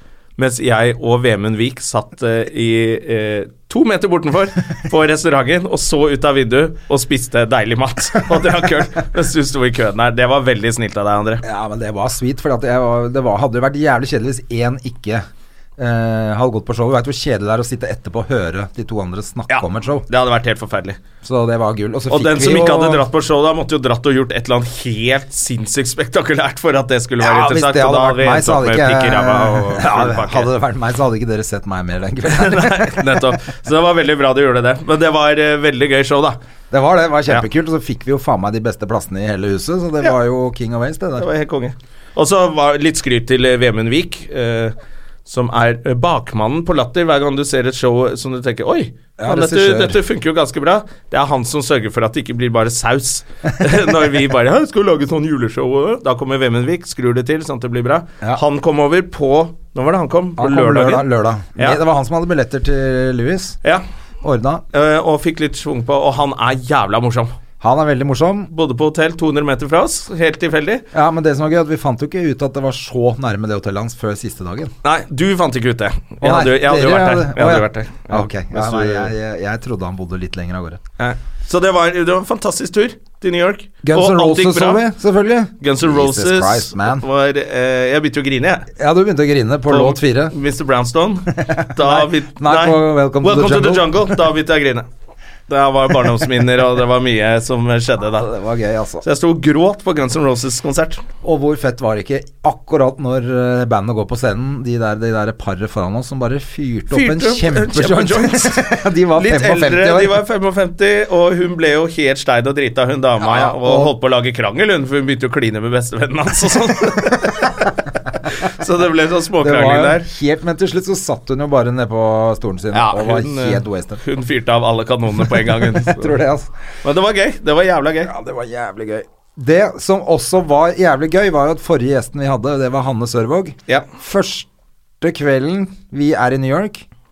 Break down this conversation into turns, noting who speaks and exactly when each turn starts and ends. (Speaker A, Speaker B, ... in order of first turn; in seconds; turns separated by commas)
Speaker A: 0.4-11.4, Speaker B: 11.4-15.2, Speaker B: 15.8-20.1, Speaker A: 19.5-21.0, Speaker B: 21.2-23.1, Speaker A: 22.1-30.5, Speaker B: 27.2-33.3, Speaker A: 32.3-36.4, Speaker B: 36.7-41.3, Speaker A: 41.2-44.7, Speaker A: 45.2-61.8, Speaker B: 49.2-50.0, Speaker B: 60.4-63.6, Speaker B: 64.2-64.6, Speaker A: 64.7-67.3, Speaker B: 67.6-68.5, Speaker A: 68.5-70.8, Speaker B: 70.9-74.7, Speaker A: 74.8-79.1, Speaker B: 76.2-80.8, Speaker A: 81.0-84.8, Speaker B: 83.8-87.0, Speaker A: 85.6-88.7, Speaker B: 88.8-90.3, Speaker A: 89.7-94.8, Speaker B: 91.3-94.2, Speaker A: 95.5-98.4, Speaker B: 98.2-99.0, Speaker A: 99.0-101.0, Speaker B: 101.2-110.2, Speaker A: 106.9-117.7, Speaker B: 113.2-113.9, Speaker A: 118.3-120.1, Speaker B: 119.4-124.0, Speaker A: 122.7-126.1, Speaker B: 125.3-126.5, Speaker A: 126.8-128.1, Speaker B: 128.0-134.5, Speaker B: 135.0-136.8